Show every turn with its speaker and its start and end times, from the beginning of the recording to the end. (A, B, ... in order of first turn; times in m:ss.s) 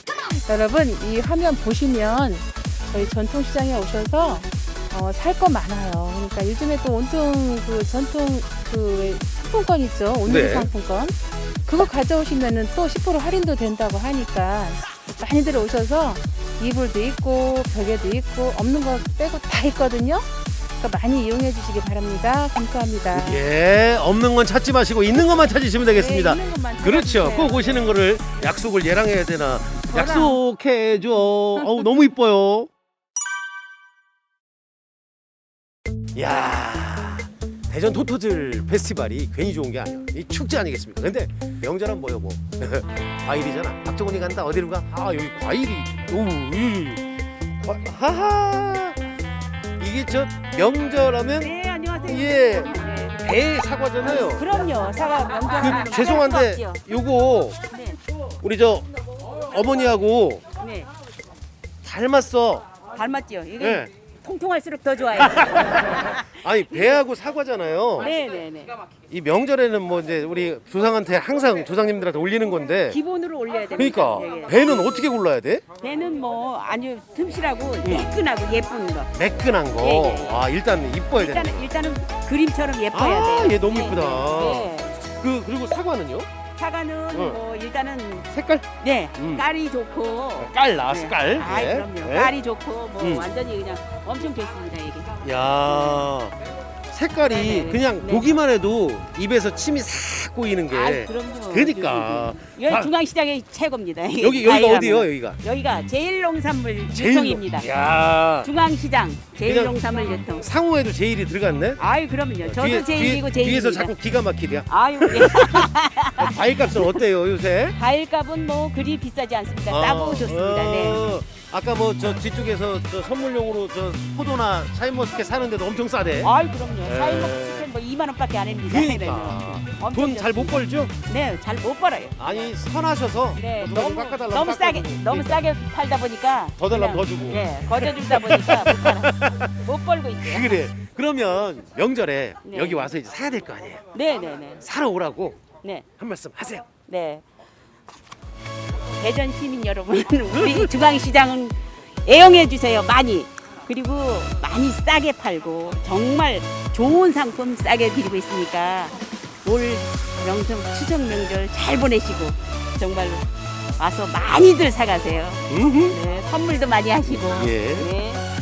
0:00.4-0:23.4 A
0:10.2-0:10.7 B
0:23.1-0:32.7 B
0:25.9-0:28.5 A
0:29.9-0:30.4 A
0:31.5-0:31.9 A
0:36.1-0:47.0 B
0:47.6-0:49.0 B
0:49.8-0:54.5 B
0:51.3-0:53.2 C
0:54.0-0:56.8 C
0:55.5-0:57.6 B
0:57.7-0:58.0 C
0:58.4-1:00.4 B
1:00.6-1:00.9 C
1:01.8-1:02.6 B
1:02.9-1:07.0 C
1:03.6-1:03.9 B
1:05.2-1:08.1 B
1:08.0-1:08.8 C
1:09.1-1:13.0 B
1:12.9-1:14.9 C
1:13.7-1:15.6 B
1:15.8-1:19.1 C
1:17.8-1:18.1 B
1:19.1-1:21.7 B
1:19.8-1:20.5 C
1:21.1-1:25.0 C
1:22.9-1:26.3 B
1:26.6-1:28.3 C
1:27.1-1:27.4 B
1:28.3-1:29.4 B
1:28.8-1:36.1 C
1:30.4-1:32.3 B
1:33.0-1:33.3 B
1:35.2-1:36.4 B
1:36.9-1:42.9 B
1:37.2-1:38.3 C
1:40.7-1:47.7 C
1:44.2-1:45.4 B
1:46.9-1:48.5 B
1:48.4-1:50.4 C
1:49.4-1:49.8 B
1:50.3-1:51.8 B
1:51.8-1:53.9 C
1:52.4-1:57.8 B
1:54.7-1:57.0 C
1:57.7-2:01.2 C
1:59.7-2:06.3 B
2:06.2-2:12.2 C
2:06.8-2:07.7 B
2:08.7-2:10.9 B
2:12.2-2:15.4 B
2:13.4-2:20.6 C
2:16.6-2:19.6 B
2:20.2-2:23.9 B
2:22.4-2:22.9 C
2:23.9-2:24.6 C
2:24.6-2:25.4 B
2:26.0-2:26.7 B
2:26.8-2:27.2 C
2:29.0-2:48.2 C
2:30.4-2:30.7 B
2:45.5-2:46.0 B
2:47.1-2:47.9 B